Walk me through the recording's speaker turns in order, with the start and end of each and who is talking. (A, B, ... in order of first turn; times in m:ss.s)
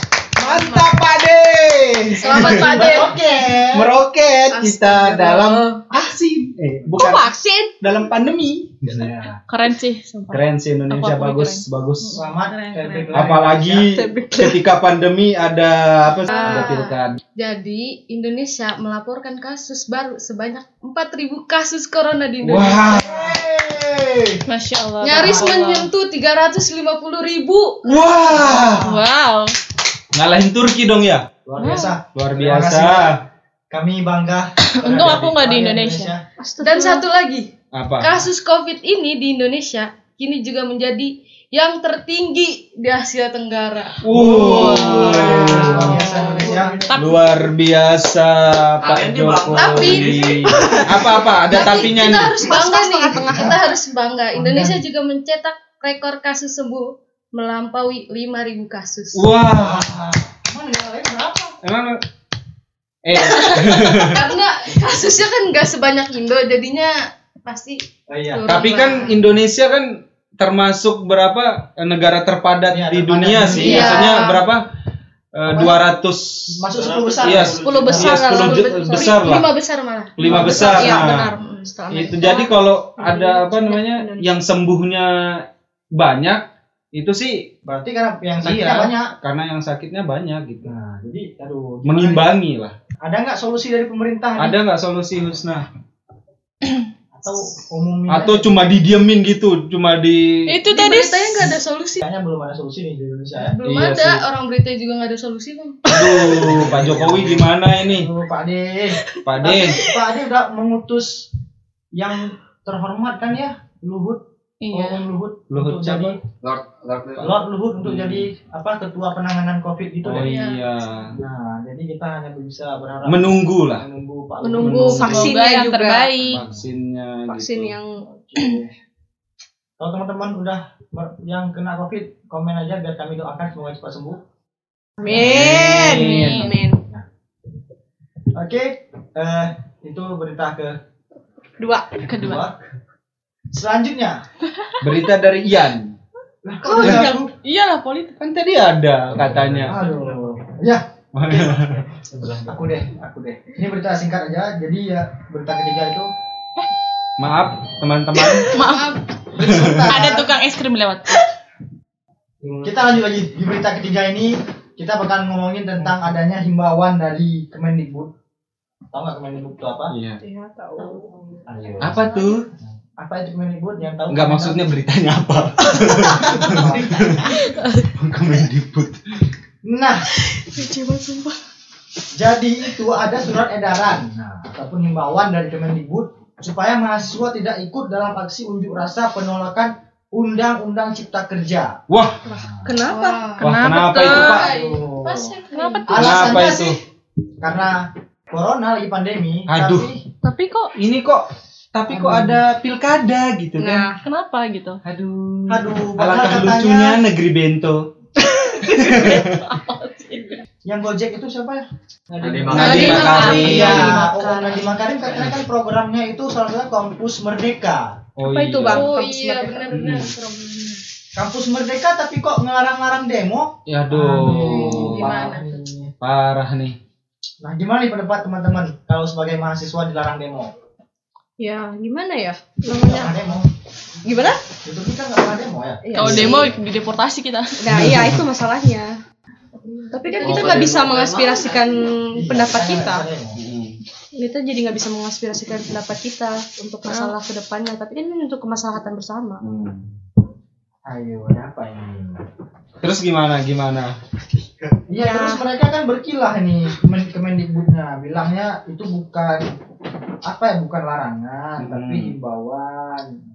0:00.4-0:09.1 A
0:00.4-0:01.0 B
0:02.2-0:03.2 B
0:02.2-0:02.9 C
0:02.6-0:03.9 D
0:04.5-0:05.8 B
0:06.9-0:07.7 C
0:08.8-0:09.4 D
0:09.5-0:11.6 E
0:10.3-0:12.2 A
0:12.0-0:13.3 B
0:12.2-0:13.9 D
0:13.1-0:17.2 A
0:13.8-0:14.6 C
0:16.2-0:23.0 B
0:22.4-0:23.3 A
0:22.8-0:24.4 D
0:24.5-0:25.9 E
0:25.0-0:27.8 B
0:25.2-0:25.4 D
0:27.8-0:28.8 A
0:28.3-0:29.0 D
0:28.8-0:29.5 E
0:30.1-0:31.2 A
0:31.4-0:33.2 D
0:31.6-0:31.9 E
0:32.1-0:33.1 A
0:33.7-0:36.2 D
0:34.8-0:36.1 E
0:36.4-0:37.0 C
0:36.6-0:44.0 B
0:37.7-0:38.3 A
0:44.0-0:46.1 A
0:44.1-0:46.8 D
0:45.2-0:45.5 B
0:46.1-0:46.8 B
0:46.1-0:46.7 C
0:46.8-0:47.2 E
0:46.9-0:52.5 A
0:48.8-0:51.1 F
0:49.5-0:50.5 B
0:51.5-0:59.3 B
0:51.5-0:53.6 C
0:54.3-0:54.8 D
0:59.1-0:59.9 A
0:59.5-1:01.6 D
1:01.6-1:02.0 A
1:03.0-1:04.3 A
1:03.1-1:09.2 B
1:08.1-1:08.5 D
1:08.5-1:14.7 A
1:12.7-1:14.2 D
1:13.5-1:14.4 B
1:15.3-1:16.6 A
1:15.5-1:15.8 D
1:16.6-1:18.6 D
1:16.7-1:18.2 F
1:17.2-1:19.5 A
1:17.6-1:20.8 B
1:20.2-1:21.3 A
1:20.2-1:21.1 D
1:20.2-1:24.3 C
1:21.9-1:25.1 A
1:25.9-1:26.4 A
1:26.9-1:27.4 A
1:27.6-1:29.1 D
1:28.4-1:30.7 A
1:30.6-1:32.3 D
1:31.8-1:32.7 A
1:33.0-1:34.6 D
1:34.4-1:35.6 A
1:37.2-1:38.6 D
1:38.1-1:40.5 A
1:40.5-1:41.5 E
1:40.6-1:42.0 B
1:42.0-1:43.5 D
1:43.4-1:46.4 B
1:43.6-1:44.2 A
1:45.9-1:48.1 A
1:46.4-1:47.5 F
1:46.5-1:47.0 D
1:47.9-1:51.3 D
1:49.2-1:49.8 A
1:51.9-1:56.2 D
1:54.6-1:55.0 E
1:55.5-1:56.2 A
1:56.4-1:57.4 F
1:57.2-2:00.4 D
1:57.8-1:58.3 A
2:00.0-2:01.1 A
2:00.2-2:00.7 B
2:01.1-2:05.0 D
2:03.0-2:03.8 A
2:04.4-2:06.3 C
2:04.6-2:05.4 A
2:05.0-2:06.4 E
2:06.3-2:07.7 A
2:06.3-2:06.6 D
2:07.3-2:07.9 C
2:08.0-2:08.7 D
2:09.8-2:14.2 D
2:15.0-2:15.8 D
2:15.0-2:16.8 C
2:15.1-2:16.6 A
2:15.7-2:16.5 E
2:18.3-2:20.8 D
2:21.6-2:22.0 C
2:22.0-2:22.5 D
2:22.1-2:22.5 E
2:23.5-2:24.2 D
2:24.8-2:25.9 A
2:26.4-2:27.3 D
2:26.6-2:27.2 C
2:26.8-2:27.2 A
2:27.4-2:28.2 E
2:28.2-2:29.8 A
2:29.2-2:31.8 D
2:31.1-2:31.8 A
2:32.4-2:36.1 D
2:37.2-2:38.6 A
2:38.4-2:39.0 E
2:38.6-2:39.1 B
2:39.3-2:40.3 D
2:39.4-2:40.0 A
2:39.9-2:41.2 E
2:42.4-2:48.1 D
2:48.9-2:49.9 D
2:49.9-2:50.2 A
2:50.2-2:51.2 C
2:50.8-2:51.1 B
2:51.5-2:52.3 D
2:51.8-2:52.4 A
2:53.0-2:54.7 D
2:54.1-2:59.0 A
2:56.2-2:57.4 D
2:57.4-2:57.9 B
2:59.6-3:00.1 D
3:00.0-3:01.4 B
3:02.1-3:11.8 D
3:11.9-3:12.2 A
3:12.3-3:13.2 C
3:12.3-3:12.7 D
3:12.9-3:16.7 B
3:13.4-3:14.5 E
3:13.4-3:14.5 A
3:14.2-3:15.3 D
3:15.5-3:16.5 E
3:15.9-3:16.7 D
3:16.0-3:16.8 A
3:17.4-3:20.0 D
3:19.5-3:19.9 A
3:20.7-3:23.9 A
3:21.9-3:22.4 D
3:23.6-3:24.0 C
3:24.0-3:24.8 E
3:24.8-3:27.8 A
3:25.5-3:27.0 D
3:28.5-3:30.4 E
3:28.7-3:29.4 A
3:30.6-3:38.0 D
3:32.2-3:33.2 F
3:32.5-3:34.0 A
3:32.6-3:34.8 B
3:33.1-3:33.8 E
3:38.2-3:38.9 A
3:38.2-3:39.5 C
3:38.7-3:40.8 B
3:39.7-3:40.1 A
3:41.1-3:45.9 D
3:43.7-3:45.2 A
3:44.5-3:45.6 B
3:46.0-3:46.8 A
3:47.4-3:50.5 D
3:51.4-3:53.2 C
3:52.7-3:53.5 D
3:54.0-3:54.4 C
3:54.6-3:56.2 D
3:55.8-3:56.6 C
3:56.0-3:57.5 E
3:56.0-3:56.5 A
3:57.6-3:59.0 C
3:57.7-3:58.2 A
3:59.6-4:00.7 B
3:59.9-4:03.1 C
4:00.2-4:01.6 F
4:02.2-4:03.4 D
4:03.4-4:03.8 A
4:04.1-4:09.4 C
4:06.9-4:07.1 E
4:09.4-4:09.9 A
4:10.9-4:12.2 D
4:12.8-4:13.9 A
4:14.9-4:19.4 D
4:15.0-4:15.4 C
4:20.2-4:23.1 D
4:21.6-4:22.1 A